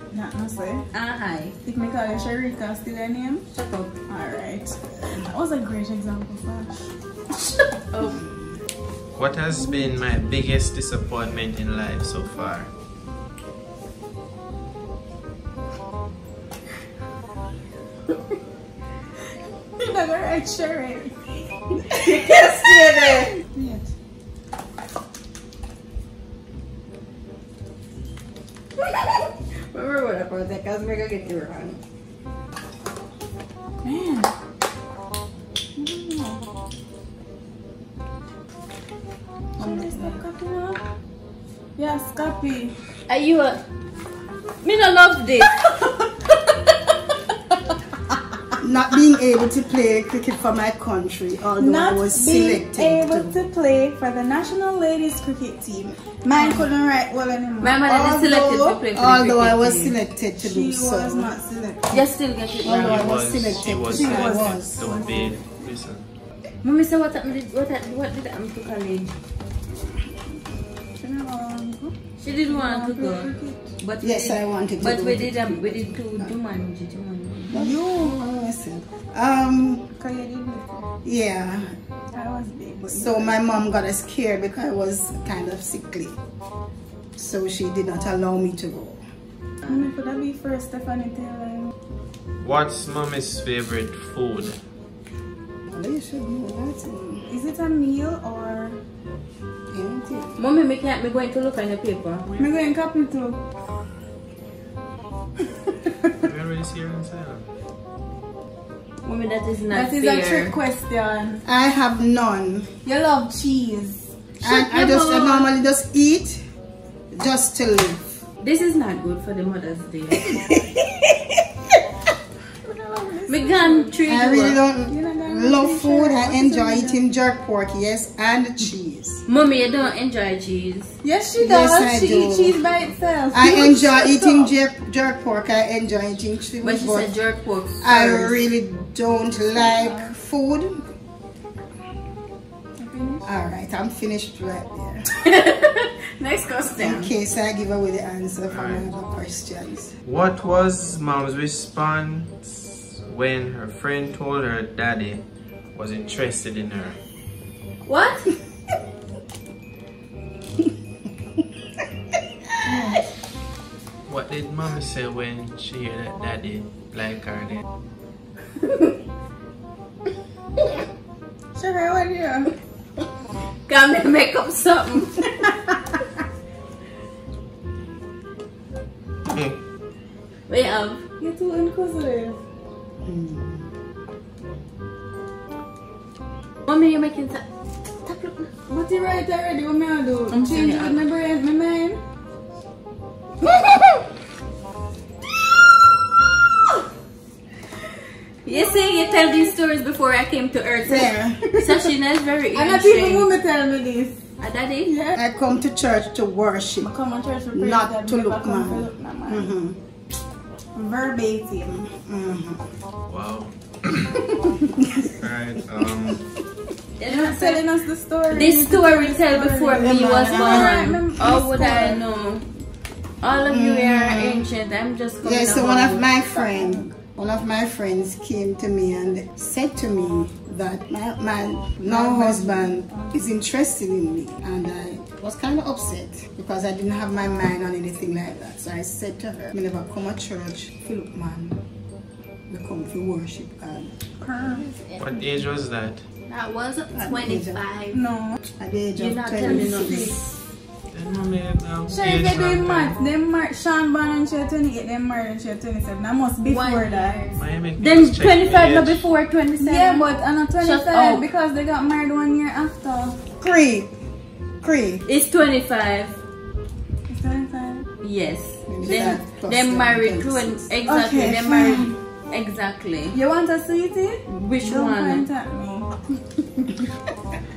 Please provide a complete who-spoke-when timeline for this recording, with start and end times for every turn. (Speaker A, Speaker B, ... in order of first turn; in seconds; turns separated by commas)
Speaker A: 0.1-0.8, Speaker B: 0.9-1.6, Speaker A: 1.6-3.5, Speaker B: 3.5-4.0, Speaker A: 4.1-6.9, Speaker B: 7.9-8.2, Speaker C: 9.1-12.7, Speaker A: 19.8-21.3, Speaker B: 21.9-23.3, Speaker A: 23.4-23.9, Speaker B: 28.8-31.8, Speaker A: 33.8-34.3, Speaker A: 35.8-36.4, Speaker A: 39.6-40.9, Speaker D: 39.6-40.2, Speaker A: 41.8-42.7, Speaker B: 43.1-43.6, Speaker B: 44.6-47.0, Speaker D: 48.6-53.3, Speaker A: 51.6-58.8, Speaker B: 56.4-56.6, Speaker B: 57.6-60.0, Speaker D: 58.9-61.4, Speaker A: 60.4-62.0, Speaker B: 61.9-63.1, Speaker C: 62.5-66.0, Speaker D: 62.6-64.8, Speaker A: 63.9-65.4, Speaker B: 66.6-69.1, Speaker A: 71.0-72.0, Speaker B: 72.2-77.7, Speaker A: 72.5-73.7, Speaker D: 74.0-76.3, Speaker D: 77.5-79.9, Speaker A: 77.5-78.2, Speaker A: 80.0-80.9, Speaker D: 81.0-81.8, Speaker A: 82.1-83.5, Speaker D: 82.9-86.2, Speaker D: 87.2-89.0, Speaker A: 89.6-91.7, Speaker C: 92.4-94.6, Speaker D: 95.7-97.3, Speaker A: 97.3-98.8, Speaker D: 99.7-100.3, Speaker B: 100.4-102.3, Speaker A: 102.3-103.4, Speaker A: 105.8-106.1, Speaker C: 106.2-107.5, Speaker B: 109.0-110.6, Speaker A: 109.7-111.4, Speaker D: 111.5-112.7, Speaker A: 112.8-114.1, Speaker D: 114.4-116.4, Speaker B: 114.4-115.5, Speaker D: 117.1-118.2, Speaker B: 118.4-120.5, Speaker D: 120.3-121.4, Speaker A: 122.6-123.9, Speaker B: 123.3-124.6, Speaker D: 124.1-129.2, Speaker A: 124.9-127.0, Speaker B: 129.3-131.0, Speaker A: 131.0-134.5, Speaker D: 131.4-132.8, Speaker D: 133.3-137.1, Speaker B: 136.6-138.4, Speaker D: 137.8-140.8, Speaker A: 139.6-140.1, Speaker A: 142.8-143.3, Speaker D: 143.2-145.1, Speaker B: 145.2-147.1, Speaker A: 146.4-146.9, Speaker D: 146.8-149.9, Speaker C: 148.5-148.9, Speaker C: 150.1-157.0, Speaker B: 157.8-158.3, Speaker D: 162.7-163.0, Speaker C: 164.1-167.6, Speaker A: 171.6-172.5, Speaker B: 173.7-175.5, Speaker C: 179.3-179.6, Speaker B: 180.5-181.1, Speaker A: 181.2-182.4, Speaker D: 183.0-183.6, Speaker B: 186.7-187.4, Speaker B: 188.0-188.5, Speaker A: 188.7-192.0, Speaker B: 190.3-191.0, Speaker B: 198.4-203.3, Speaker D: 200.9-201.7, Speaker A: 202.5-204.2, Speaker B: 204.4-204.9, Speaker A: 204.9-205.2, Speaker D: 205.1-206.9, Speaker A: 206.8-209.5, Speaker D: 207.6-209.8, Speaker A: 210.7-211.9, Speaker D: 211.9-212.6, Speaker C: 213.1-214.3, Speaker C: 215.2-216.3, Speaker B: 217.0-217.6, Speaker A: 217.1-222.0, Speaker B: 218.3-222.5, Speaker D: 219.8-220.9, Speaker B: 223.2-226.2, Speaker D: 223.4-224.5, Speaker D: 225.2-241.6, Speaker A: 226.2-226.9, Speaker A: 231.8-233.2, Speaker D: 242.5-243.9, Speaker A: 244.2-244.7, Speaker B: 244.5-245.3, Speaker C: 245.0-246.0, Speaker B: 246.3-248.0, Speaker D: 246.9-247.6, Speaker A: 247.9-248.4, Speaker D: 248.6-250.2, Speaker B: 249.0-250.2, Speaker A: 249.4-250.2, Speaker C: 250.9-253.0, Speaker A: 251.9-257.3, Speaker B: 256.4-260.1, Speaker C: 257.4-259.1, Speaker A: 259.6-263.2, Speaker B: 260.6-261.2, Speaker D: 263.4-263.9, Speaker D: 264.6-265.0, Speaker B: 265.1-266.2, Speaker A: 267.1-267.9, Speaker B: 268.0-273.2, Speaker D: 268.7-270.7, Speaker A: 270.9-271.9, Speaker A: 273.1-276.0, Speaker B: 274.3-275.3